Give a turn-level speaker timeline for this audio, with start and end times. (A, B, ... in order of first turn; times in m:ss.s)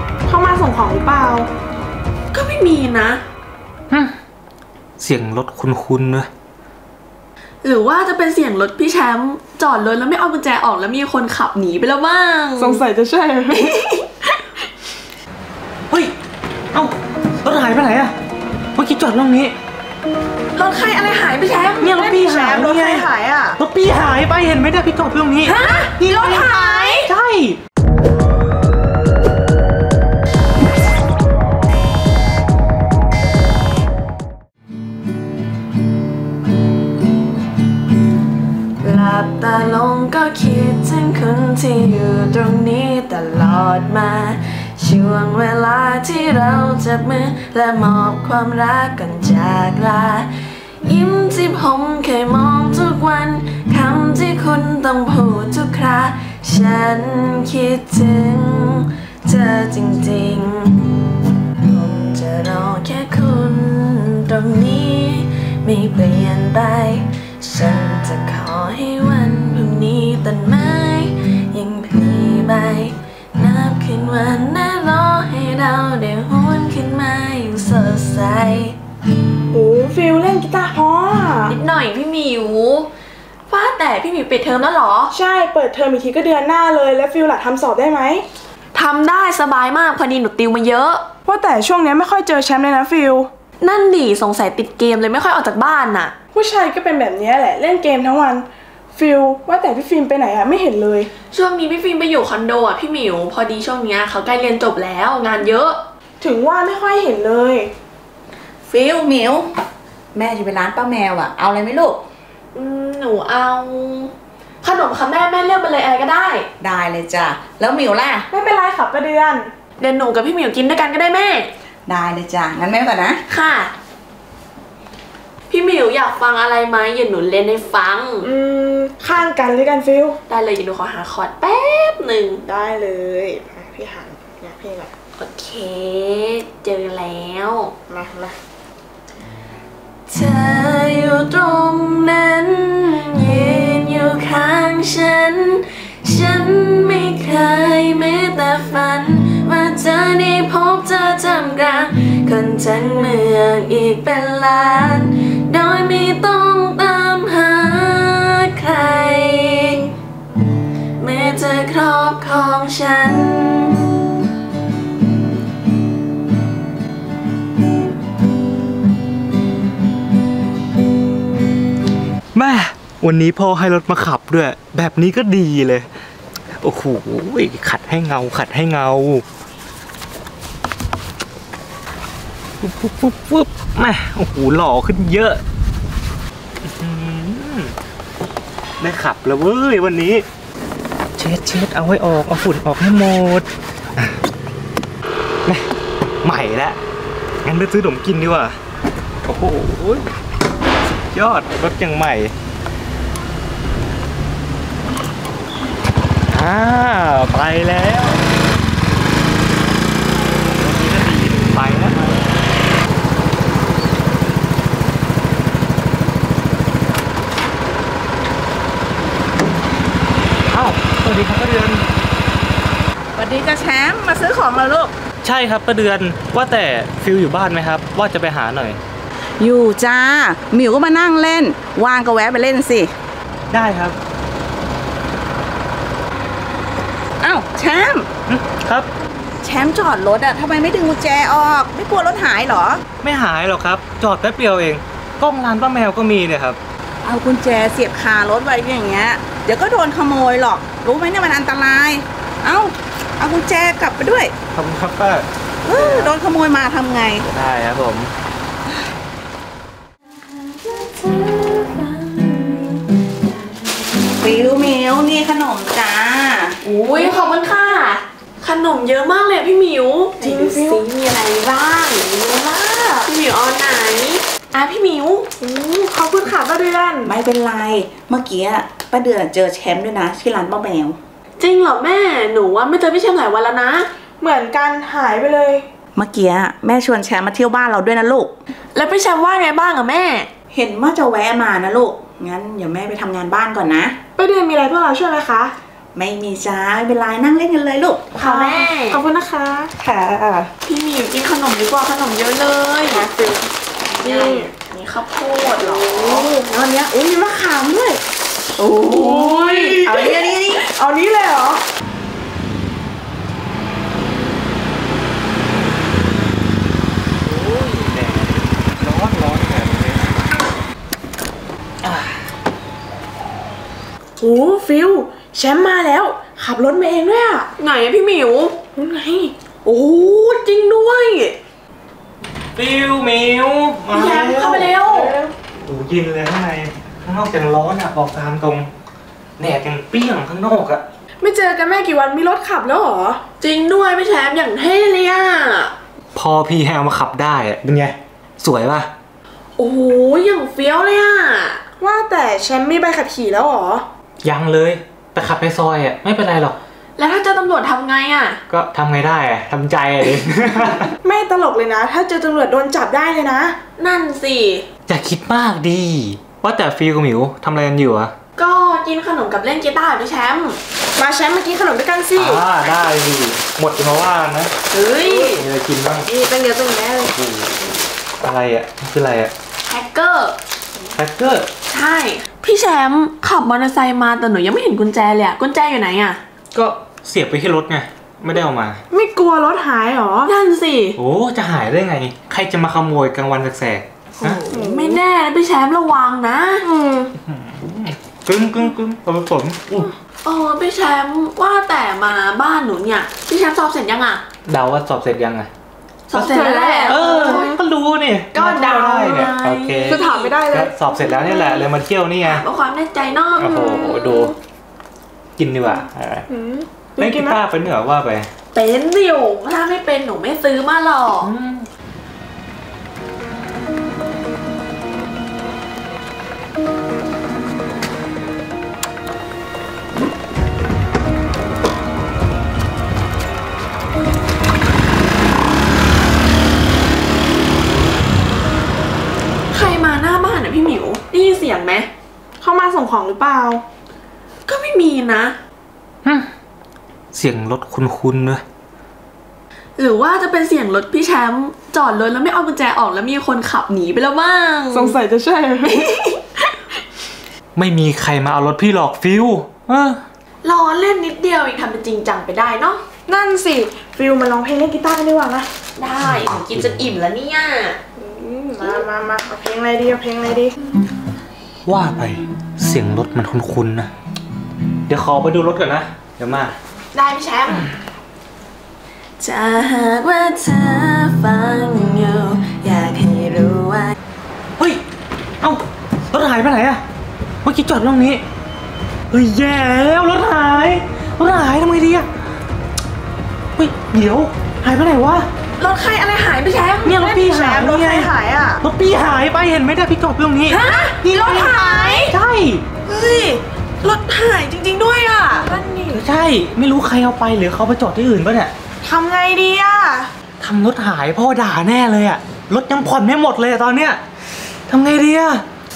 0:00.3-0:01.5 A
0:02.3-0:03.2 B
0:05.0-0:06.3 C
0:07.6-0:12.8 B
0:12.6-0:13.8 A
0:13.5-0:14.0 B
0:16.7-0:18.1 C
0:18.7-0:19.5 C
0:20.5-0:21.9 B
0:21.8-0:25.6 C
0:21.8-0:23.4 A
0:22.4-0:23.5 D
0:25.4-0:27.1 B
0:27.0-0:27.6 C
0:38.8-0:50.3 B
0:50.8-1:01.0 B
1:01.6-1:18.8 B
1:19.5-1:21.6 A
1:21.5-1:22.9 B
1:23.5-1:25.1 B
1:25.1-1:28.2 A
1:28.7-1:31.0 B
1:31.2-1:33.3 A
1:33.6-1:36.1 B
1:36.3-1:41.1 A
1:41.3-1:45.8 B
1:46.2-1:47.7 A
1:48.7-1:49.5 D
1:50.1-1:52.0 D
1:52.5-1:56.5 B
1:56.6-1:58.3 D
1:58.3-1:59.5 A
1:59.8-2:01.5 B
2:01.8-2:03.2 D
2:03.3-2:03.7 B
2:05.5-2:08.3 B
2:08.2-2:10.2 A
2:10.3-2:12.4 B
2:12.4-2:14.9 A
2:15.2-2:17.7 B
2:17.9-2:18.3 A
2:20.1-2:39.9 B
2:41.0-2:43.9 B
2:52.3-2:55.9 C
2:56.6-2:59.2 C
3:02.6-3:05.4 C
3:06.6-3:07.7 C
3:08.8-3:10.2 C
3:11.2-3:14.2 C
3:16.2-3:16.8 C
3:17.4-3:18.6 C
3:19.2-3:20.1 C
3:20.8-3:22.3 C
3:26.3-3:28.2 C
3:30.4-3:32.1 C
3:40.5-3:41.8 C
3:43.2-3:44.9 D
3:45.2-3:48.8 C
3:49.4-3:52.9 D
3:53.5-3:54.0 C
3:57.2-3:58.1 D
3:58.3-3:58.9 C
3:59.4-4:02.8 D
4:03.0-4:06.6 C
4:07.0-4:14.3 D
4:14.5-4:16.1 C
4:15.6-4:17.3 D
4:17.2-4:18.1 C
4:20.3-4:24.3 B
4:24.2-4:26.6 D
4:26.6-4:32.3 B
4:30.2-4:30.8 A
4:32.5-4:33.0 A
4:33.0-4:35.3 B
4:35.4-4:37.1 A
4:37.0-4:41.0 D
4:41.4-4:43.9 B
4:44.2-4:45.6 A
4:45.9-4:48.3 D
4:48.7-4:50.3 B
4:50.5-4:54.0 D
4:54.2-4:55.5 A
4:55.9-4:58.1 D
4:58.2-4:59.0 B
4:58.2-4:59.7 A
4:59.8-5:00.5 D
5:00.6-5:03.1 B
5:02.9-5:04.5 A
5:03.9-5:06.3 B
5:05.6-5:08.0 A
5:08.6-5:10.3 B
5:08.8-5:11.6 A
5:09.8-5:10.6 D
5:17.2-5:20.2 C
5:24.2-5:27.5 A
5:27.6-5:28.6 B
5:28.8-5:29.3 A
5:29.6-5:31.4 B
5:32.6-5:34.7 C
5:33.9-5:35.2 B
5:34.8-5:35.3 A
5:35.6-5:38.7 C
5:39.4-5:40.8 C
5:41.2-5:43.2 A
5:43.4-5:45.7 B
5:46.1-5:48.9 C
5:49.6-5:51.6 B
5:51.8-5:53.8 A
5:54.2-5:56.6 C
5:57.0-5:58.4 B
5:58.5-6:00.9 C
6:01.0-6:03.6 A
6:03.8-6:04.7 B
6:04.9-6:08.1 C
6:08.4-6:10.6 B
6:11.0-6:12.4 A
6:12.1-6:14.5 C
6:14.7-6:15.4 B
6:15.2-6:16.1 C
6:16.1-6:17.1 A
6:17.1-6:17.7 C
6:18.2-6:19.3 C
6:19.6-6:20.4 B
6:20.9-6:21.5 C
6:21.7-6:26.2 B
6:26.8-6:28.8 C
6:28.9-6:30.3 A
6:30.2-6:31.0 B
6:31.0-6:34.4 C
6:34.2-6:35.0 A
6:34.4-6:36.6 B
6:36.6-6:37.1 A
6:37.2-6:39.9 C
6:40.2-6:44.2 B
6:44.4-6:45.5 C
6:46.1-6:47.5 B
6:46.1-6:47.6 A
6:46.8-6:52.4 C
6:48.3-6:50.4 B
6:48.9-6:49.2 A
6:49.9-6:50.7 A
6:52.2-6:53.6 B
6:53.4-6:54.3 C
6:53.4-6:54.3 A
6:55.4-6:56.2 C
6:56.3-6:57.4 A
6:57.0-6:58.3 C
6:58.5-7:01.3 B
7:01.2-7:01.6 C
7:19.5-7:21.9 B
7:22.4-7:23.6 A
7:24.5-7:25.4 B
7:27.1-7:28.4 C
7:29.8-7:35.0 B
7:34.7-7:35.8 A
7:35.6-7:36.2 B
7:37.5-7:40.0 C
7:40.4-7:42.8 B
7:43.1-7:45.5 A
7:45.8-7:47.8 B
7:46.0-7:46.7 C
7:48.0-7:50.5 A
7:51.6-7:53.9 C
7:54.9-7:56.6 C
7:56.9-7:57.7 B
7:59.2-8:04.0 B
8:05.4-8:06.8 C
8:07.4-8:08.2 C
8:09.1-8:12.1 C
8:13.6-8:15.3 C
8:15.6-8:17.0 B
8:16.8-8:20.6 C
8:16.9-8:18.6 A
8:20.5-8:22.1 B
8:21.0-8:21.9 A
8:21.1-8:22.6 C
8:22.9-8:23.4 A
8:23.8-8:25.6 B
8:25.3-8:26.0 A
8:25.9-8:28.5 C
8:28.8-8:30.1 A
8:30.4-8:34.0 C
8:34.7-8:35.4 C